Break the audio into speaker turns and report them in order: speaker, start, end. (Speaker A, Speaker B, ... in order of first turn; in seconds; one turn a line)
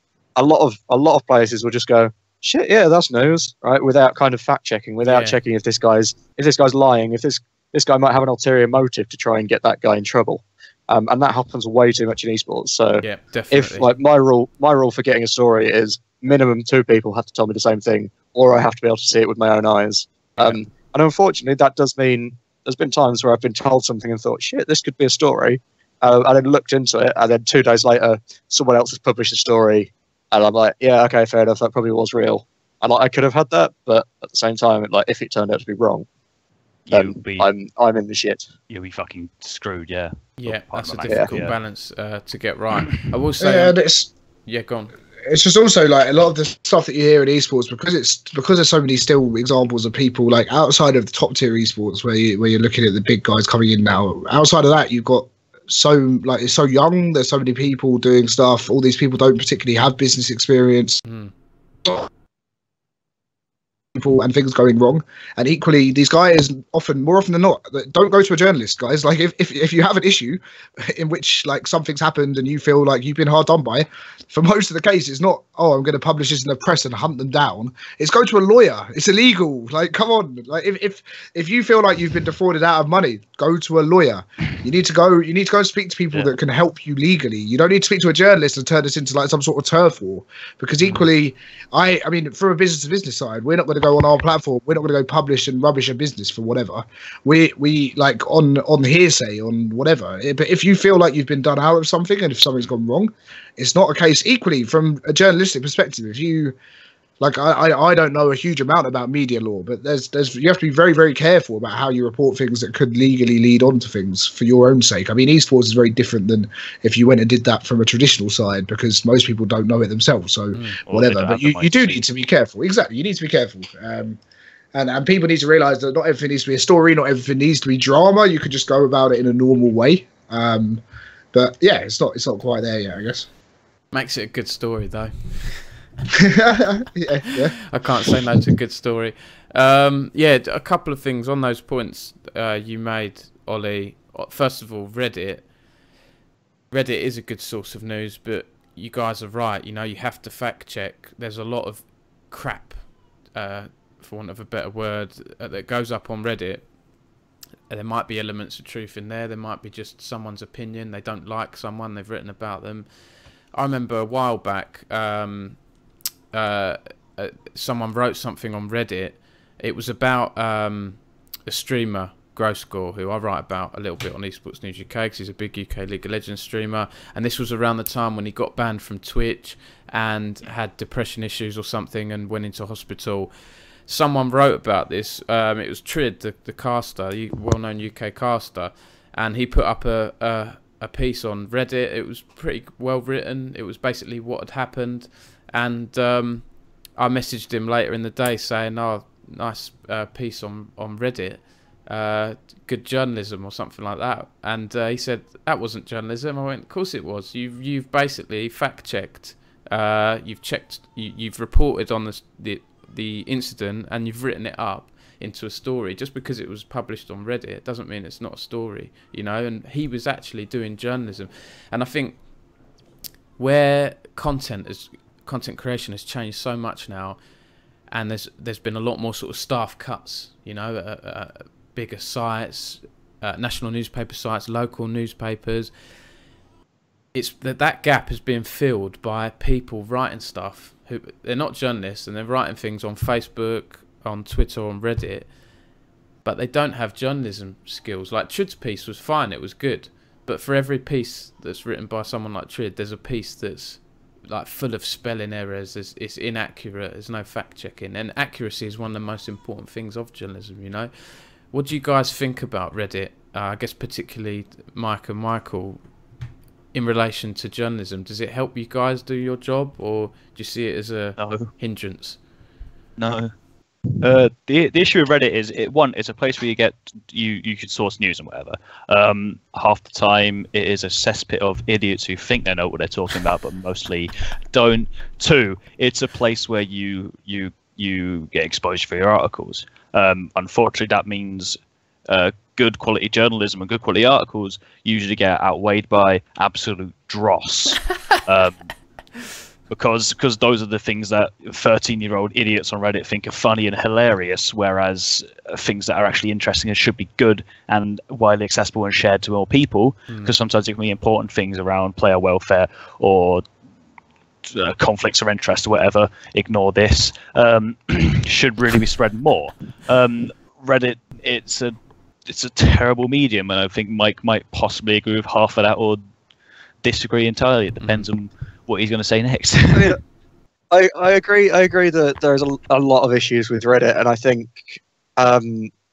Speaker A: 0.3-36.1
Speaker B: 5.0-5.4
Speaker B: 13.0-13.9
Speaker C: 36.9-37.5
Speaker A: 36.9-38.5
Speaker C: 38.7-41.5
Speaker B: 40.4-43.8
Speaker D: 43.4-44.1
Speaker B: 44.5-44.9
Speaker D: 45.2-61.0
Speaker B: 61.0-61.3
Speaker D: 63.9-106.5
Speaker D: 107.2-124.2
Speaker B: 120.5-120.8
Speaker C: 120.9-122.0
Speaker D: 124.7-130.8
Speaker D: 131.3-133.3
Speaker B: 133.9-135.6
Speaker D: 136.1-137.6
Speaker B: 137.7-145.5
Speaker B: 146.7-156.7
Speaker B: 157.7-162.9
Speaker B: 163.5-165.6
Speaker B: 166.3-183.3
Speaker B: 183.8-222.2
Speaker B: 223.4-227.2
Speaker B: 227.9-235.7
Speaker B: 237.1-245.3
Speaker B: 246.2-260.9
Speaker B: 261.5-265.8
Speaker B: 266.7-272.2
Speaker C: 271.2-271.5
Speaker C: 273.0-273.3
Speaker C: 274.0-298.7
Speaker C: 299.7-313.4
Speaker C: 314.4-321.7
Speaker C: 322.3-326.0
Speaker C: 326.8-330.0
Speaker B: 327.8-328.1
Speaker A: 329.7-330.0
Speaker A: 330.7-335.7